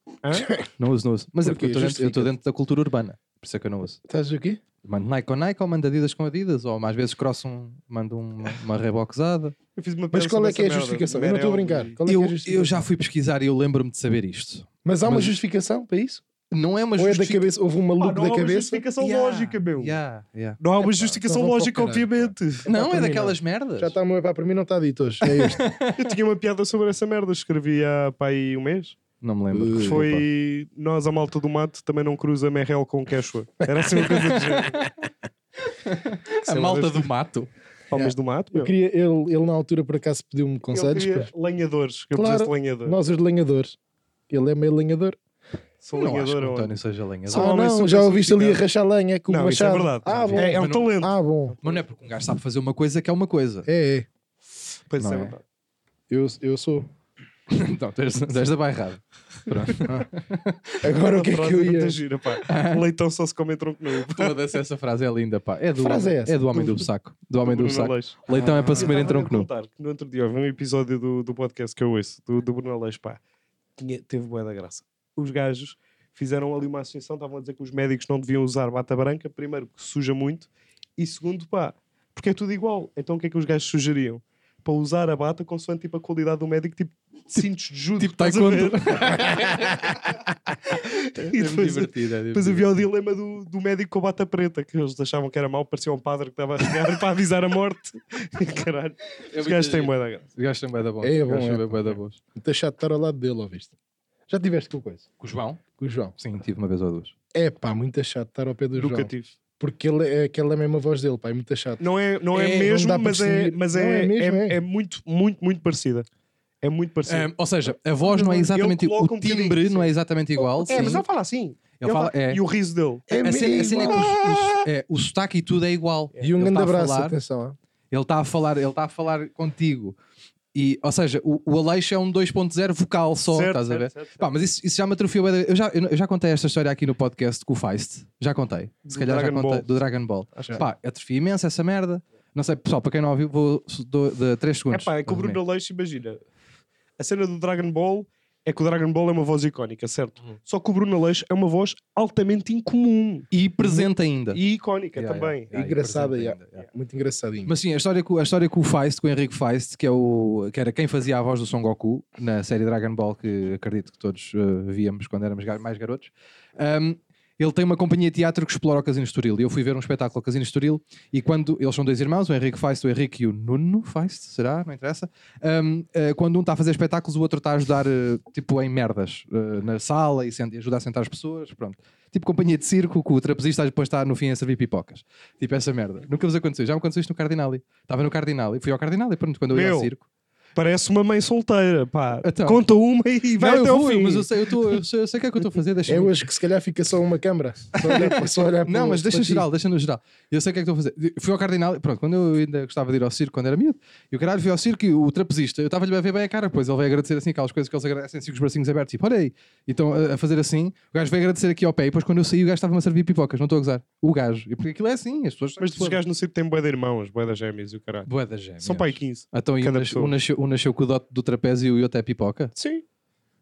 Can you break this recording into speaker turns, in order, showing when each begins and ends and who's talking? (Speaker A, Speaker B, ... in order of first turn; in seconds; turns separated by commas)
Speaker A: 0.2-0.5, Speaker B: 0.3-0.7, Speaker C: 0.8-4.0, Speaker B: 1.4-2.3, Speaker B: 4.1-4.6, Speaker C: 4.8-9.6, Speaker A: 9.8-12.0, Speaker B: 10.1-12.9, Speaker C: 12.1-15.4, Speaker B: 14.8-16.2, Speaker C: 16.5-17.5, Speaker B: 17.0-18.8, Speaker A: 18.0-20.0, Speaker C: 19.0-20.6, Speaker A: 20.6-22.7, Speaker B: 20.8-25.6, Speaker C: 22.7-23.9, Speaker C: 25.3-26.0, Speaker A: 25.9-29.0, Speaker C: 29.2-30.2, Speaker B: 29.5-30.2, Speaker A: 29.8-34.9, Speaker B: 33.8-34.2, Speaker C: 34.5-34.9, Speaker C: 35.6-37.5, Speaker A: 36.5-37.1, Speaker A: 37.9-38.7, Speaker B: 37.9-41.3, Speaker A: 40.7-43.0, Speaker B: 42.1-43.8, Speaker B: 44.3-45.2, Speaker A: 45.8-46.8, Speaker C: 46.0-47.5, Speaker A: 47.3-48.6, Speaker B: 47.3-51.6, Speaker A: 49.3-51.8, Speaker C: 50.1-50.9, Speaker C: 51.6-53.7, Speaker B: 53.7-54.1, Speaker A: 54.9-55.4, Speaker C: 55.0-55.4, Speaker B: 56.1-56.9, Speaker C: 57.5-60.8, Speaker B: 60.8-62.0, Speaker A: 61.0-64.4, Speaker C: 62.4-62.8, Speaker C: 64.1-69.5, Speaker B: 65.8-66.9, Speaker A: 67.5-73.2, Speaker B: 68.4-68.9, Speaker A: 73.8-89.9, Speaker C: 88.0-90.0, Speaker C: 90.7-92.7, Speaker A: 90.9-100.2, Speaker C: 99.3-102.2, Speaker B: 101.0-103.7, Speaker B: 104.3-105.1, Speaker C: 105.2-105.6, Speaker B: 105.8-106.2, Speaker C: 106.2-107.2, Speaker B: 107.3-111.8, Speaker A: 108.8-109.3, Speaker A: 111.8-116.1, Speaker B: 112.4-114.6, Speaker A: 116.6-117.3, Speaker C: 117.1-121.0, Speaker A: 118.0-123.2, Speaker B: 120.7-121.0, Speaker C: 121.8-122.4, Speaker B: 123.1-124.5, Speaker C: 123.2-127.2, Speaker A: 123.7-124.1, Speaker B: 126.2-127.6, Speaker C: 127.9-130.0, Speaker C: 130.5-145.4, Speaker A: 133.3-134.3, Speaker A: 138.9-139.7, Speaker A: 140.3-140.6, Speaker A: 144.7-146.2, Speaker A: 147.0-155.5, Speaker C: 153.3-154.4, Speaker C: 155.0-156.7, Speaker B: 155.5-157.5, Speaker C: 157.5-190.1, Speaker A: 189.5-189.9, Speaker A: 190.6-194.3, Speaker C: 192.2-192.6, Speaker C: 193.4-196.2, Speaker B: 195.9-199.5, Speaker C: 197.8-216.0, Speaker A: 215.6-218.1, Speaker C: 218.1-222.5, Speaker A: 218.6-220.1, Speaker A: 222.6-222.8